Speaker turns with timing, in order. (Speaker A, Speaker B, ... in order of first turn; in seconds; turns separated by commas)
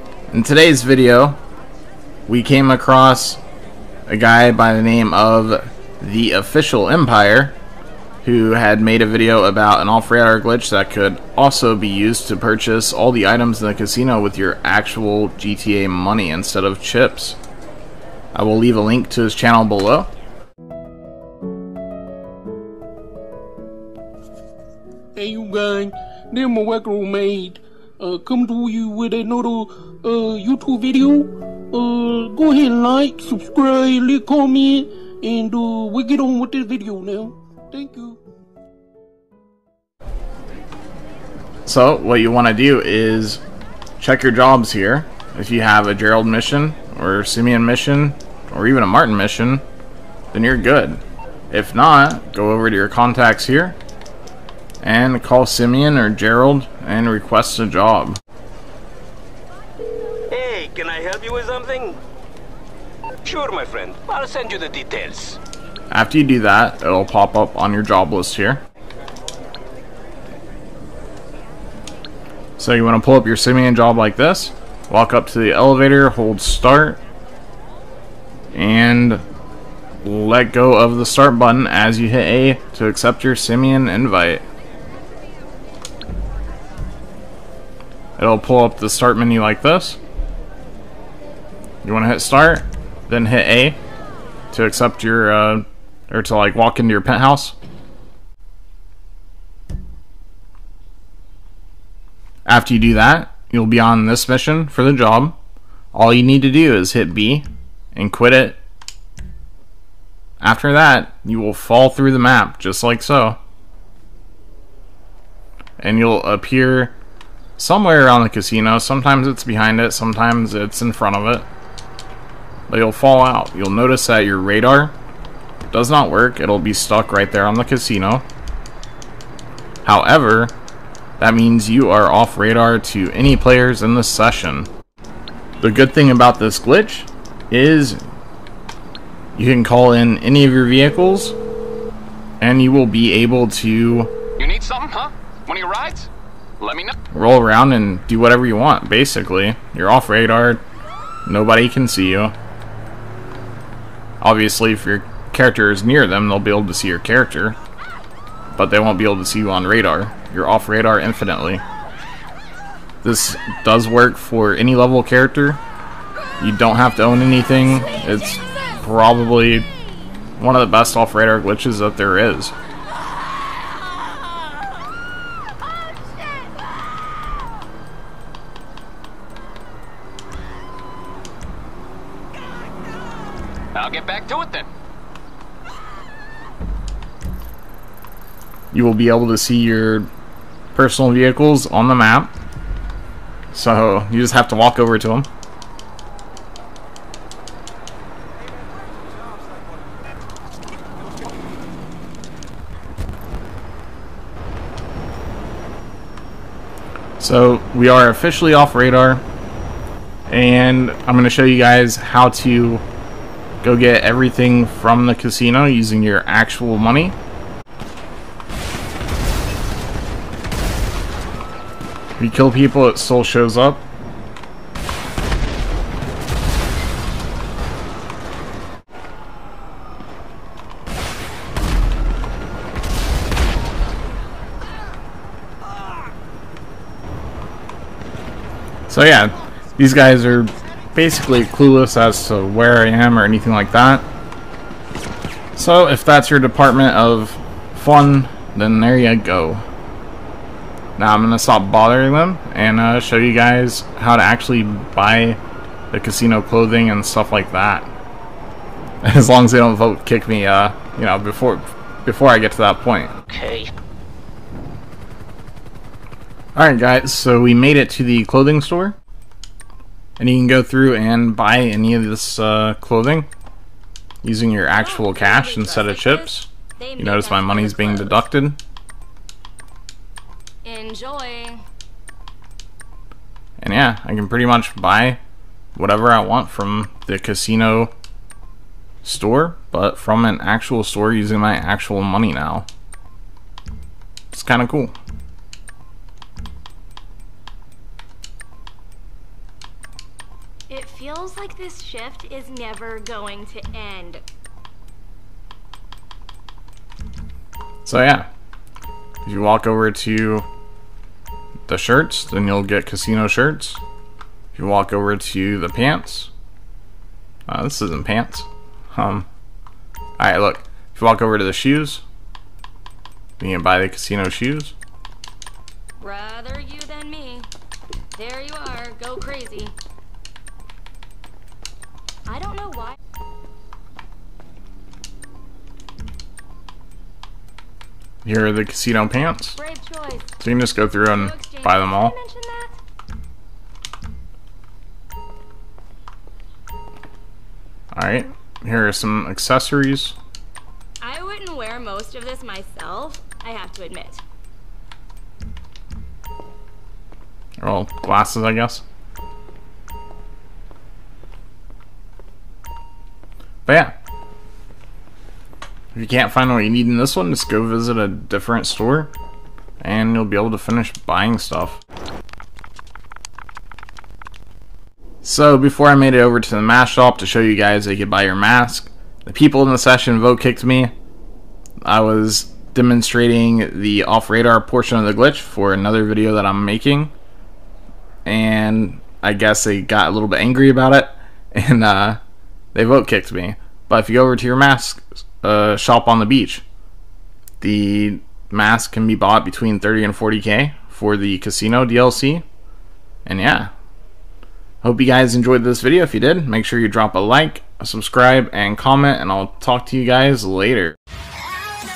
Speaker A: 0.3-1.4, Speaker A: 2.3-3.4, Speaker A: 4.1-7.5, Speaker A: 8.2-17.4, Speaker A: 18.3-20.1, Speaker B: 25.1-38.2, Speaker A: 41.6-43.4, Speaker A: 44.0-49.6, Speaker A: 50.3-53.8, Speaker A: 54.8-58.2, Speaker C: 60.3-62.0, Speaker C: 63.2-65.4, Speaker A: 65.9-68.6, Speaker A: 72.6-77.0, Speaker A: 78.5-79.2, Speaker A: 80.0-84.4, Speaker A: 88.2-90.0, Speaker A: 91.8-93.8, Speaker A: 94.5-97.5, Speaker A: 102.5-105.3, Speaker A: 105.9-108.6, Speaker A: 110.4-113.4, Speaker A: 115.8-116.9, Speaker A: 117.6-121.5, Speaker A: 122.7-124.9, Speaker A: 125.7-128.2, Speaker A: 129.8-130.5, Speaker A: 131.2-134.7, Speaker A: 135.6-138.0, Speaker A: 139.3-141.3, Speaker A: 142.4-144.1, Speaker D: 144.4-146.9, Speaker A: 147.1-150.6, Speaker A: 151.2-152.3, Speaker A: 154.2-157.6, Speaker A: 158.6-161.6, Speaker A: 163.0-165.6, Speaker A: 166.4-169.7, Speaker A: 170.4-172.5, Speaker D: 183.7-184.7, Speaker A: 188.7-190.1, Speaker A: 190.7-192.3, Speaker A: 193.5-195.3, Speaker A: 207.2-209.2, Speaker A: 210.3-212.8, Speaker A: 213.6-217.2, Speaker A: 222.2-223.8, Speaker A: 238.9-244.0, Speaker A: 245.6-249.6, Speaker A: 251.0-255.4, Speaker A: 255.9-257.9, Speaker A: 259.0-263.1, Speaker A: 266.5-268.9, Speaker A: 270.2-273.3, Speaker A: 274.2-278.6, Speaker E: 274.7-278.2, Speaker E: 280.6-281.6, Speaker A: 283.6-285.2, Speaker A: 285.8-287.9, Speaker A: 289.0-292.7, Speaker A: 294.3-294.9, Speaker E: 300.7-304.2, Speaker A: 307.9-308.3, Speaker A: 309.2-310.4, Speaker A: 311.7-313.8, Speaker A: 314.5-316.3, Speaker A: 317.5-319.3, Speaker A: 320.2-322.0, Speaker A: 323.4-324.7, Speaker E: 326.0-327.5, Speaker E: 328.1-329.7, Speaker E: 332.3-332.9, Speaker A: 338.2-339.6, Speaker E: 339.6-340.3, Speaker A: 340.4-342.1, Speaker E: 341.1-342.8, Speaker A: 347.9-350.1, Speaker E: 351.0-354.2, Speaker A: 357.6-358.8, Speaker A: 363.6-363.9, Speaker A: 365.9-369.1, Speaker A: 369.8-371.8, Speaker A: 375.2-380.9, Speaker A: 381.8-387.1, Speaker A: 388.2-392.2, Speaker A: 392.7-396.6, Speaker A: 397.6-402.4, Speaker A: 403.2-403.7, Speaker A: 404.8-410.9